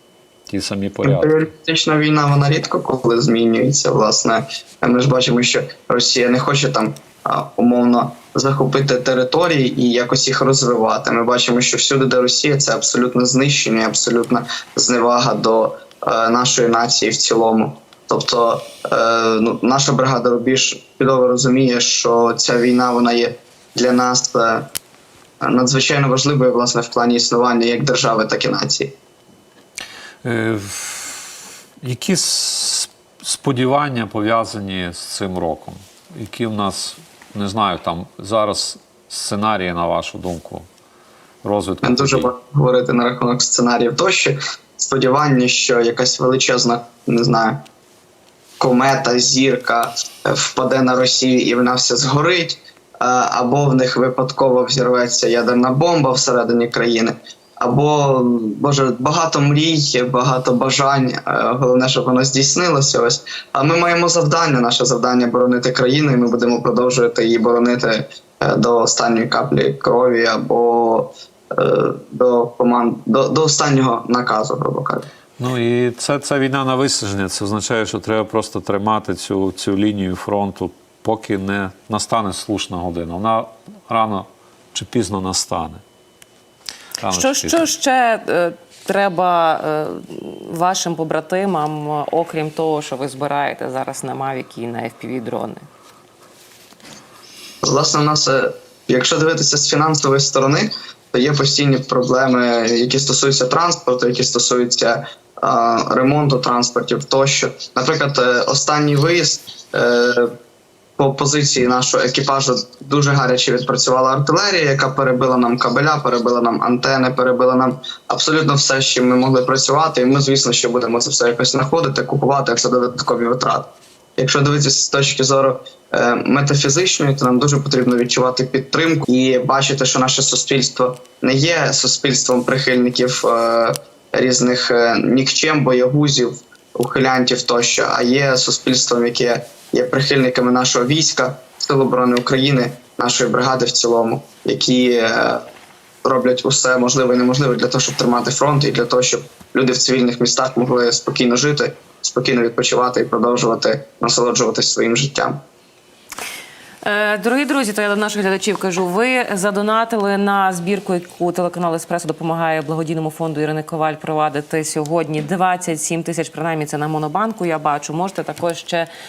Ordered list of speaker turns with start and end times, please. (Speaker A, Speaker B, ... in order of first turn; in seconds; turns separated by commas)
Speaker A: 0.5-1.4, Speaker B: 1.0-24.7, Speaker B: 25.4-28.9, Speaker A: 30.2-31.2, Speaker A: 31.8-40.6, Speaker A: 41.4-42.3, Speaker B: 41.8-47.6, Speaker B: 48.6-75.1, Speaker A: 75.4-85.8, Speaker A: 87.0-87.7, Speaker C: 87.0-95.7, Speaker B: 97.6-110.3, Speaker B: 111.0-145.4, Speaker B: 146.0-155.4, Speaker C: 156.8-168.9